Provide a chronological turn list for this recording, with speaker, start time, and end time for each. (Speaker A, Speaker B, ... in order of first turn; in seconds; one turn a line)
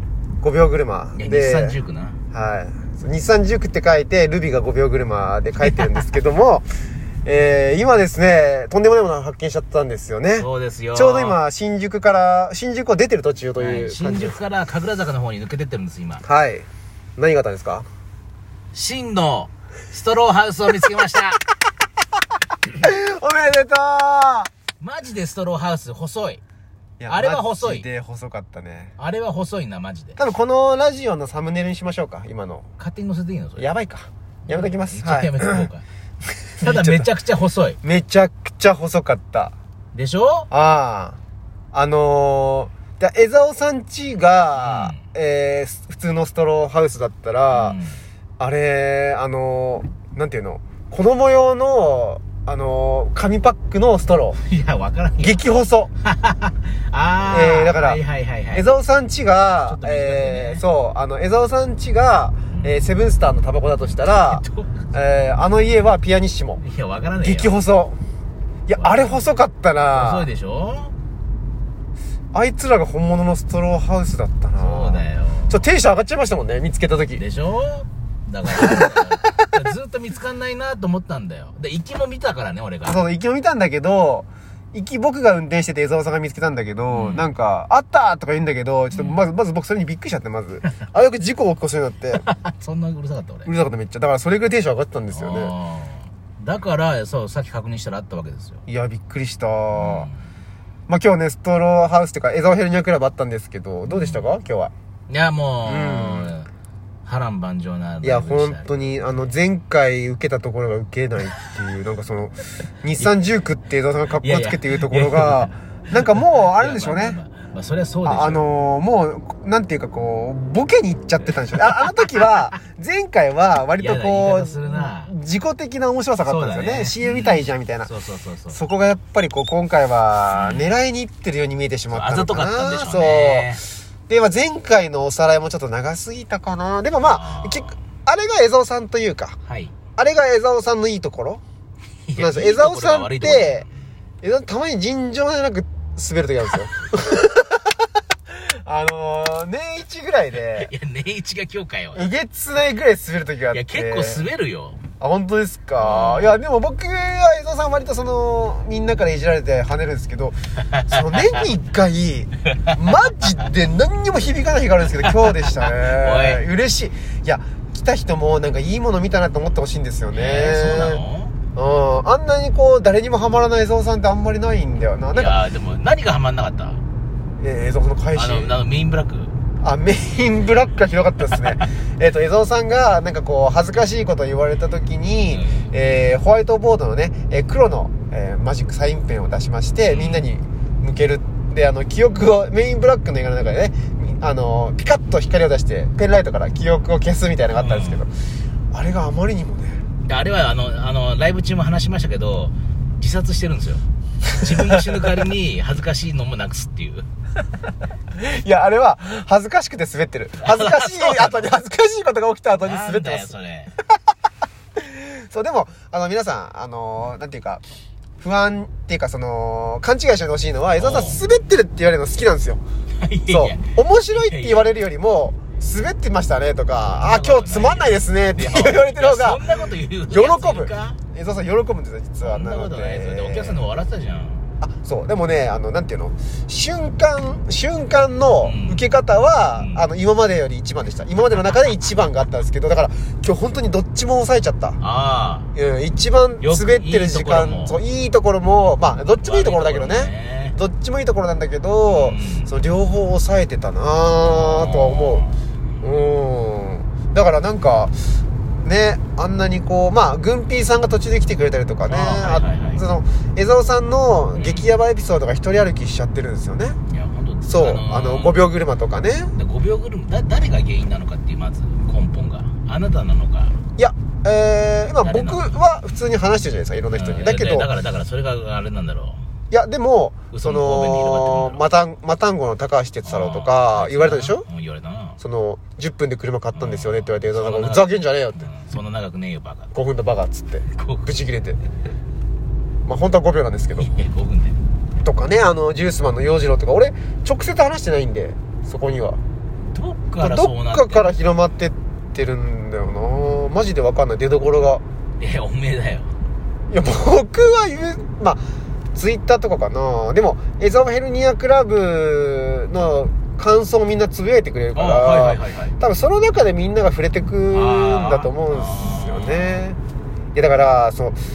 Speaker A: 0.4-1.8
Speaker B: 1.1-2.2
Speaker A: 2.3-6.7
Speaker A: 7.2-14.4
Speaker B: 10.4-11.4
Speaker B: 13.6-16.2
Speaker A: 16.2-17.9
Speaker B: 18.7-21.4
Speaker A: 22.8-24.5
Speaker B: 24.8-26.4
Speaker A: 27.0-28.9
Speaker B: 27.1-27.9
Speaker B: 29.0-30.2
Speaker A: 30.1-32.7
Speaker B: 32.8-33.7
Speaker A: 33.6-35.7
Speaker B: 34.5-35.8
Speaker A: 36.5-37.1
Speaker B: 36.6-37.8
Speaker A: 37.8-39.5
Speaker B: 39.9-40.5
Speaker A: 40.5-41.2
Speaker A: 41.7-47.8
Speaker B: 44.5-45.0
Speaker B: 47.5-48.0
Speaker A: 48.4-54.4
Speaker B: 54.4-55.4
Speaker A: 55.2-55.9
Speaker B: 56.0-58.7
Speaker A: 57.2-58.0
Speaker A: 58.5-66.6
Speaker B: 59.6-60.6
Speaker B: 64.1-64.8
Speaker B: 66.6-67.5
Speaker A: 67.2-68.0
Speaker A: 68.7-70.3
Speaker B: 68.8-69.2
Speaker B: 69.9-70.9
Speaker A: 72.3-77.2
Speaker B: 74.6-75.6
Speaker B: 77.1-83.0
Speaker A: 78.5-79.5
Speaker A: 82.8-92.2
Speaker B: 86.9-87.3
Speaker B: 88.9-89.2
Speaker B: 92.1-93.5
Speaker A: 93.5-95.5
Speaker B: 95.1-98.6
Speaker A: 98.7-100.1
Speaker B: 99.7-100.2
Speaker A: 100.9-104.7
Speaker B: 103.9-104.3
Speaker B: 105.1-106.5
Speaker A: 105.6-106.3
Speaker B: 107.0-108.7
Speaker A: 108.0-117.2
Speaker B: 114.2-118.4
Speaker A: 118.0-127.9
Speaker B: 121.2-122.4
Speaker B: 123.8-125.1
Speaker B: 126.2-128.6
Speaker A: 128.5-139.4
Speaker B: 130.3-130.7
Speaker B: 131.9-133.7
Speaker B: 137.0-137.7
Speaker B: 139.4-139.7
Speaker A: 139.9-141.4
Speaker B: 142.1-143.7
Speaker A: 142.2-143.6
Speaker A: 144.2-147.7
Speaker A: 148.3-150.7
Speaker B: 150.3-152.1
Speaker A: 151.9-154.2
Speaker B: 153.5-154.8
Speaker A: 155.0-171.0
Speaker B: 155.8-156.4
Speaker B: 160.7-161.2
Speaker B: 165.2-166.4
Speaker B: 170.1-171.3
Speaker A: 171.5-175.4
Speaker B: 175.1-176.8
Speaker A: 177.4-178.5
Speaker B: 178.1-179.3
Speaker A: 179.6-198.1
Speaker B: 185.3-185.6
Speaker B: 189.9-190.2
Speaker B: 197.5-198.0
Speaker A: 198.7-199.8
Speaker B: 200.0-207.1
Speaker A: 208.1-213.3
Speaker B: 210.4-211.5
Speaker B: 212.6-213.7
Speaker A: 214.8-217.6
Speaker A: 218.2-222.6
Speaker B: 220.8-221.2
Speaker B: 223.0-224.7
Speaker A: 223.3-229.6
Speaker B: 226.9-231.0
Speaker A: 230.1-233.6
Speaker B: 232.2-234.5
Speaker A: 234.6-244.8
Speaker B: 238.4-238.8
Speaker B: 239.5-239.8
Speaker B: 244.8-245.5
Speaker A: 245.5-255.2
Speaker B: 246.4-247.8
Speaker B: 249.2-250.6
Speaker B: 251.8-252.5
Speaker B: 254.2-255.3
Speaker A: 255.8-257.9
Speaker A: 258.6-266.8
Speaker B: 261.9-262.8
Speaker B: 264.3-264.6
Speaker B: 266.9-268.4
Speaker A: 267.4-269.3
Speaker B: 269.3-273.6
Speaker A: 273.8-277.7
Speaker B: 275.0-275.6
Speaker B: 276.9-279.2
Speaker A: 279.5-284.4
Speaker B: 280.3-281.6
Speaker B: 283.0-285.2
Speaker A: 285.2-288.5
Speaker B: 286.5-289.7
Speaker A: 289.7-291.6
Speaker B: 290.7-291.1
Speaker A: 292.9-293.9
Speaker B: 293.8-294.6
Speaker A: 295.0-299.2
Speaker B: 299.7-301.1
Speaker A: 300.2-304.8
Speaker B: 305.2-306.1
Speaker A: 306.7-308.4
Speaker A: 308.9-319.8
Speaker B: 314.7-315.7
Speaker B: 317.5-319.6
Speaker A: 320.3-321.2